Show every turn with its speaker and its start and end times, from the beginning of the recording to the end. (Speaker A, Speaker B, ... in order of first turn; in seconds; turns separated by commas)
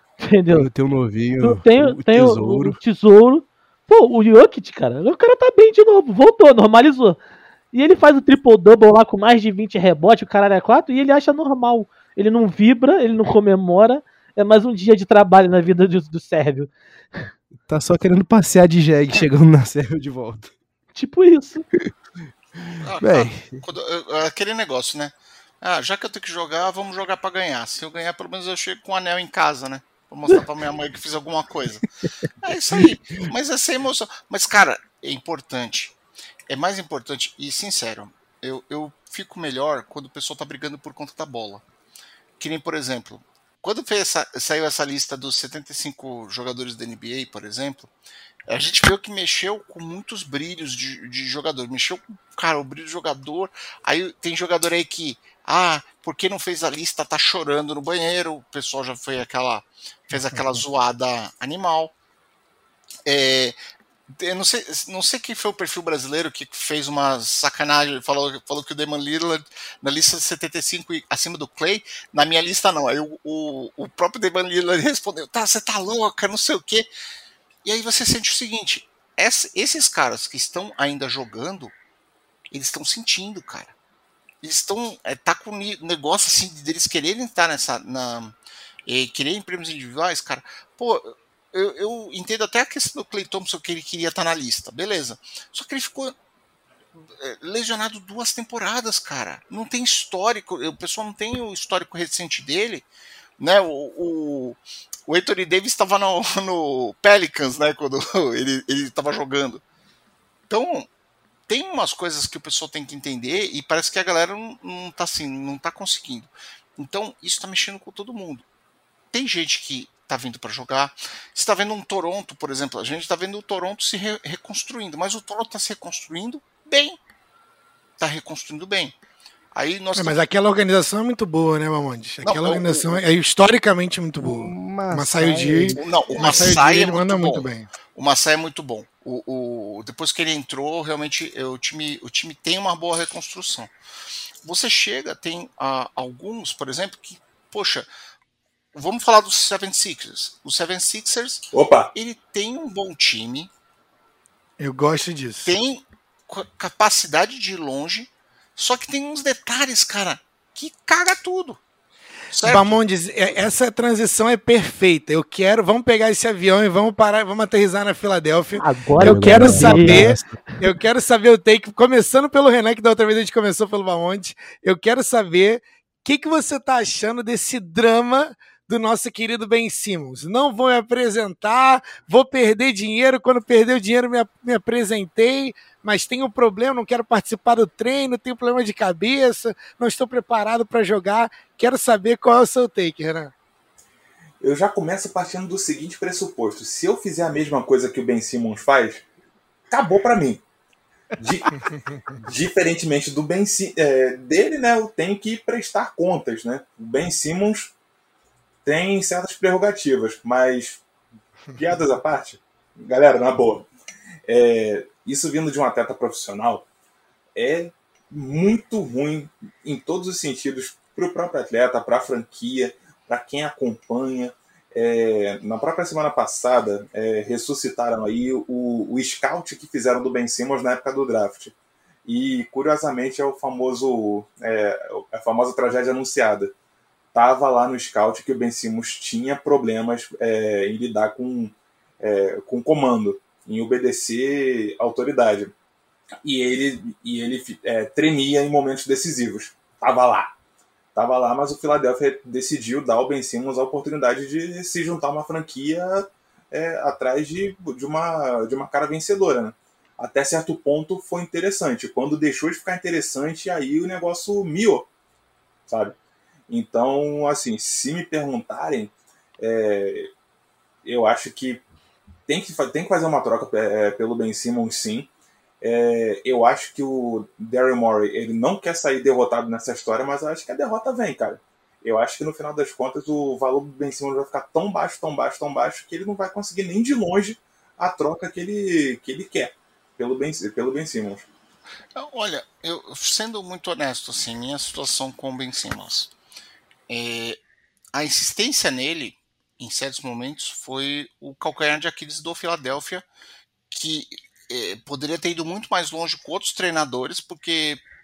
Speaker A: 0.2-0.7, Speaker B: 0.5-2.8, Speaker A: 1.4-7.2, Speaker A: 7.7-16.7, Speaker B: 17.7-20.5, Speaker A: 20.9-21.6, Speaker B: 22.6-23.6, Speaker C: 22.8-31.9, Speaker C: 32.4-35.9, Speaker C: 36.5-41.6, Speaker C: 42.4-47.9, Speaker C: 48.5-61.9, Speaker C: 63.0-63.5, Speaker C: 64.2-76.9, Speaker C: 77.6-81.7, Speaker C: 82.5-83.7, Speaker C: 84.4-88.3, Speaker C: 88.8-96.1, Speaker C: 97.2-102.9, Speaker C: 103.4-109.6, Speaker C: 110.5-110.9, Speaker C: 111.5-118.4, Speaker C: 119.1-127.0, Speaker C: 128.0-128.9, Speaker C: 129.5-130.2, Speaker D: 129.9-137.7, Speaker C: 132.2-133.0, Speaker B: 134.2-136.5, Speaker C: 135.8-143.7, Speaker C: 144.4-147.9, Speaker C: 148.7-153.5, Speaker E: 151.5-151.9, Speaker D: 154.6-155.5, Speaker C: 155.4-161.6, Speaker C: 162.3-162.8, Speaker D: 162.4-193.3, Speaker A: 168.6-170.1, Speaker B: 169.0-170.3, Speaker E: 194.4-199.0, Speaker E: 199.7-200.4, Speaker E: 201.2-201.6, Speaker E: 202.2-207.7, Speaker E: 208.6-210.8, Speaker E: 211.6-213.7, Speaker E: 214.2-216.7, Speaker E: 217.3-231.5, Speaker E: 232.1-236.5, Speaker E: 237.1-245.5, Speaker E: 246.2-250.3, Speaker E: 250.9-264.9, Speaker E: 265.7-265.9, Speaker E: 266.5-270.1, Speaker E: 270.8-271.6, Speaker E: 272.3-275.1, Speaker E: 275.6-291.3, Speaker C: 291.9-296.1, Speaker C: 296.9-297.4, Speaker C: 297.9-303.1, Speaker C: 303.7-307.8